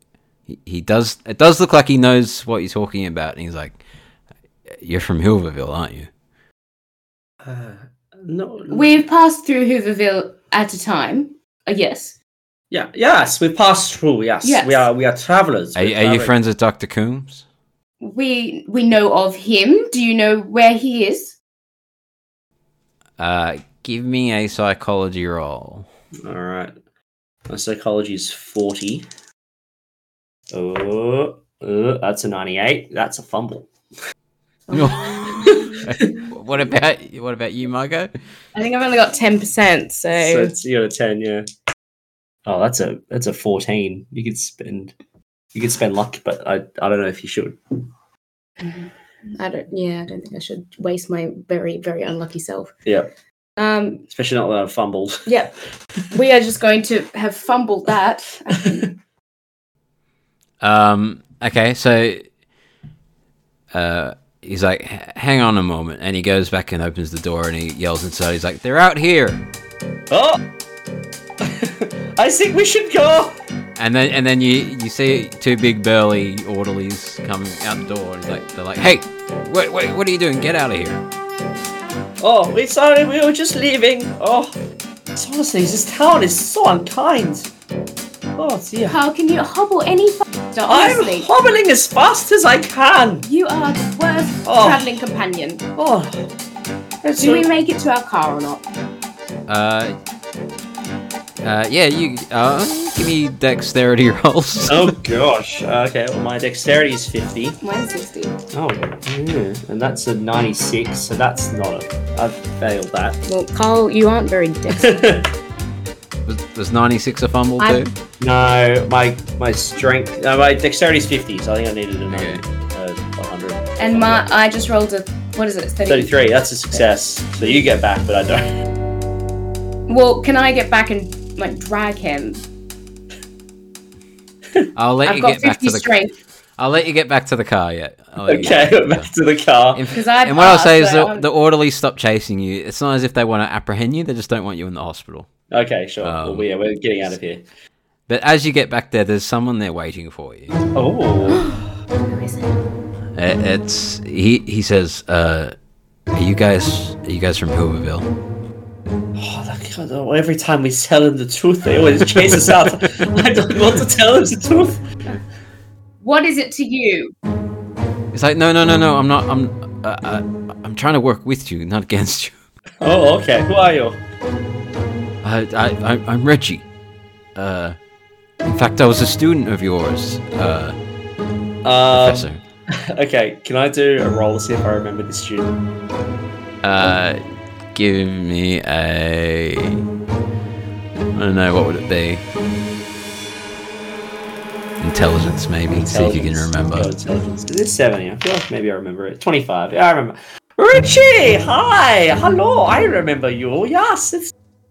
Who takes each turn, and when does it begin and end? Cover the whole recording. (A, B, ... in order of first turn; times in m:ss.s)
0:00.5-0:03.8 A
0:04.8-0:06.1 A
0:07.4-0:09.0 B
0:08.7-0:12.2 C
0:12.7-0:16.3 B
0:14.4-0:14.9 C
0:15.8-0:17.4 A
0:18.0-0:21.4 C
0:23.2-0:25.9 A
0:26.2-0:26.8 B
0:27.5-0:29.1 B
0:30.5-0:33.7 B
0:34.7-0:36.0 C
0:34.7-0:38.1 A
0:38.6-0:40.5 C
0:40.1-0:41.5 B
0:42.5-0:45.0 B
0:45.5-0:47.6 B
0:48.6-0:52.7 C
0:53.6-0:54.1 C
0:54.1-0:55.3 B
0:55.3-0:55.6 C
0:56.1-0:58.9 C
1:00.6-1:02.3 A
1:03.7-1:09.4 A
1:10.1-1:10.4 B
1:11.4-1:13.4 B
1:13.8-1:21.0 A
1:22.2-1:24.6 B
1:25.1-1:27.5 B
1:28.4-1:29.0 B
1:28.9-1:31.3 C
1:30.7-1:33.3 B
1:33.3-1:35.7 C
1:34.4-1:34.9 B
1:35.8-1:36.3 B
1:37.0-1:37.5 B
1:37.2-1:38.7 C
1:39.5-1:40.0 A
1:41.4-1:44.9 A
1:44.6-1:47.6 B
1:47.6-1:48.4 C
1:48.5-1:53.2 B
1:53.3-1:55.0 C
1:54.7-1:55.3 B
1:56.3-1:57.9 A
1:57.6-1:57.8 C
1:58.2-2:04.3 B
2:02.1-2:02.4 A
2:03.8-2:06.2 C
2:05.9-2:08.5 B
2:09.9-2:12.4 C
2:14.8-2:15.9 A
2:15.0-2:16.2 C
2:16.6-2:19.1 A
2:18.3-2:19.9 B
2:19.7-2:25.3 A
2:19.9-2:21.3 C
2:25.5-2:27.4 B
2:26.0-2:26.5 A
2:28.1-2:30.6 A
2:30.8-2:31.5 B
2:31.3-2:32.6 C
2:33.2-2:35.6 A
2:36.1-2:38.1 A
2:39.2-2:44.8 B
2:46.0-2:47.1 C
2:48.1-2:52.4 A
2:52.8-2:54.0 B
2:55.2-2:56.6 A
2:57.4-2:57.8 A
2:58.4-3:00.8 A
3:01.6-3:05.6 B
3:01.9-3:02.4 A
3:06.6-3:07.2 A
3:07.7-3:09.9 A
3:11.2-3:12.2 A
3:14.8-3:16.9 A
3:15.7-3:24.3 B